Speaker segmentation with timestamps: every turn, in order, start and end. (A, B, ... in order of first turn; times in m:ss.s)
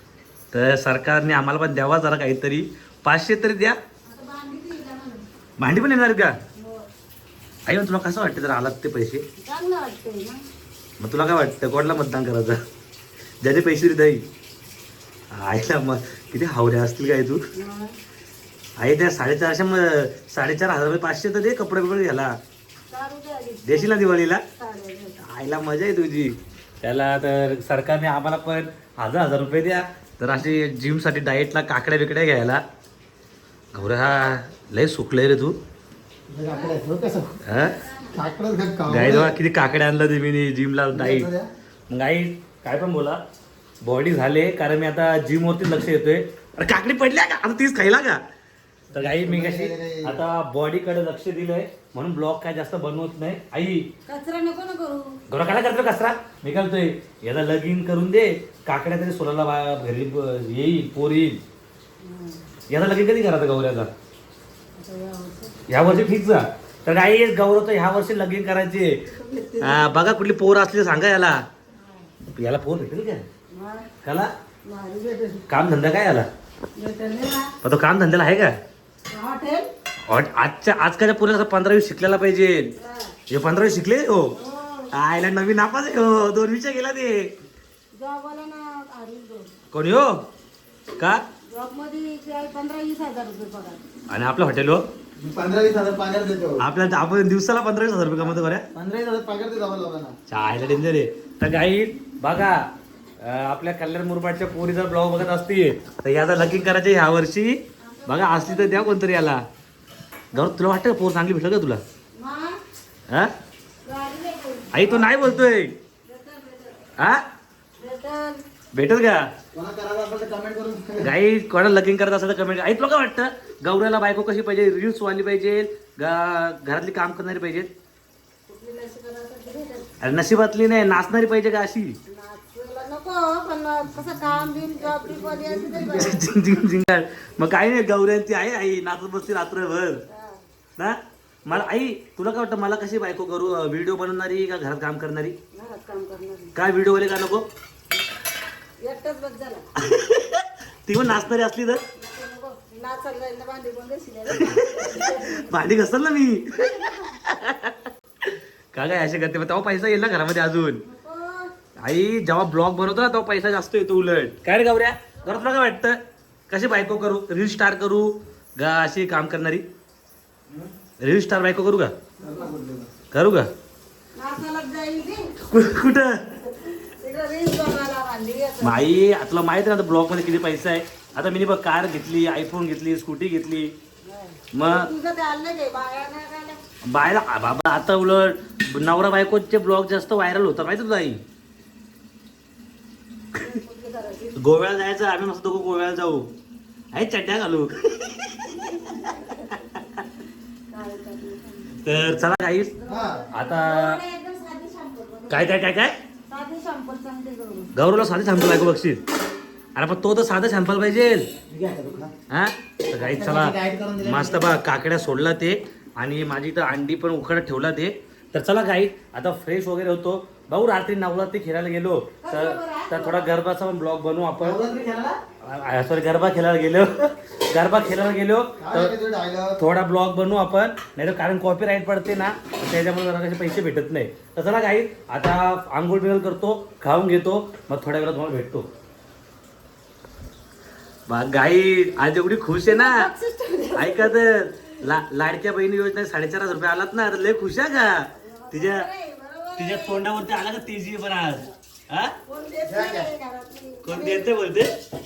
0:00.5-0:03.8 A
0:04.1-0:05.2 B
0:05.6-0:06.3 A
0:06.6-0:06.9 B
0:07.7-0:09.2 A
0:09.4-0:10.4 B
0:11.0-0:12.6 A
0:13.4-0:14.2 A
0:15.3-0:17.4 A
0:17.6-0:18.0 B
0:18.8-0:22.3 A
0:22.9-0:24.0 B
0:23.6-0:24.4 A
0:24.6-0:25.2 B
0:25.2-0:32.6 A
0:33.7-0:35.6 A
0:36.3-0:37.4 C
0:36.5-0:36.8 B
0:37.4-0:37.8 A
0:37.8-0:38.1 B
0:38.1-0:39.4 C
0:38.9-0:41.3 A
0:40.9-0:41.5 C
0:41.9-0:43.2 A
0:43.8-0:48.2 A
0:48.9-0:50.2 C
0:48.9-0:53.9 A
0:54.1-0:55.2 B
0:55.3-1:01.4 A
1:02.0-1:02.4 B
1:02.7-1:03.9 A
1:04.8-1:05.6 B
1:05.7-1:09.1 A
1:09.0-1:10.1 B
1:09.6-1:11.4 A
1:12.3-1:13.2 A
1:13.5-1:13.9 B
1:14.0-1:14.3 A
1:14.6-1:15.4 B
1:15.5-1:16.3 A
1:16.8-1:17.5 B
1:17.6-1:18.5 A
1:19.1-1:19.7 B
1:20.1-1:22.7 A
1:22.8-1:23.1 B
1:23.3-1:24.3 A
1:24.3-1:24.9 B
1:24.9-1:27.3 A
1:27.9-1:29.5 B
1:29.7-1:30.2 A
1:31.5-1:33.8 B
1:34.1-1:34.8 A
1:35.2-1:36.7 C
1:36.6-1:38.7 A
1:38.7-1:40.2 C
1:40.3-1:42.7 A
1:43.2-1:49.4 A
1:47.8-1:49.0 B
1:50.3-1:51.8 A
1:52.2-1:52.6 B
1:53.8-1:54.9 B
1:54.7-1:55.7 A
1:54.9-1:55.2 C
1:56.0-1:56.9 B
1:57.8-1:58.4 B
1:58.7-1:59.3 A
1:59.5-2:01.1 C
2:01.0-2:07.7 A
2:08.5-2:09.9 B
2:10.0-2:12.0 A
2:12.1-2:16.1 B
2:14.8-2:16.1 C
2:15.9-2:20.0 A
2:20.1-2:20.4 B
2:20.8-2:25.4 A
2:25.5-2:26.5 B
2:26.5-2:27.4 A
2:28.8-2:29.6 B
2:29.8-2:31.8 A
2:32.0-2:35.6 B
2:34.3-2:40.8 A
2:40.8-2:41.5 B
2:41.8-2:46.0 A
2:46.5-2:49.6 A
2:51.0-2:51.9 A
2:52.2-2:52.9 C
2:53.1-2:53.5 A
2:54.2-2:55.2 B
2:55.4-2:56.5 A
2:56.8-2:59.0 B
2:58.6-3:03.7 A
3:04.0-3:06.6 B
3:04.5-3:04.9 A
3:06.8-3:11.2 A
3:13.4-3:14.4 B
3:14.4-3:16.3 A
3:16.9-3:18.6 A
3:18.9-3:19.5 B
3:20.7-3:21.8 B
3:21.8-3:22.7 A
3:22.8-3:25.6 B
3:22.9-3:23.3 C
3:23.3-3:24.0 A
3:25.3-3:26.0 A
3:26.3-3:27.7 B
3:27.7-3:29.0 A
3:29.8-3:31.3 A
3:31.5-3:32.1 C
3:32.3-3:44.6 A
3:33.0-3:34.4 C
3:42.2-3:43.3 B
3:44.4-3:45.2 C
3:45.4-3:49.0 A
3:48.6-3:49.6 C
3:49.6-3:58.7 A
4:01.1-4:03.0 A
4:02.6-4:04.2 B
4:03.7-4:08.9 A
4:08.2-4:10.2 B
4:09.6-4:12.2 A
4:12.3-4:14.3 B
4:12.7-4:13.1 C
4:13.8-4:14.7 A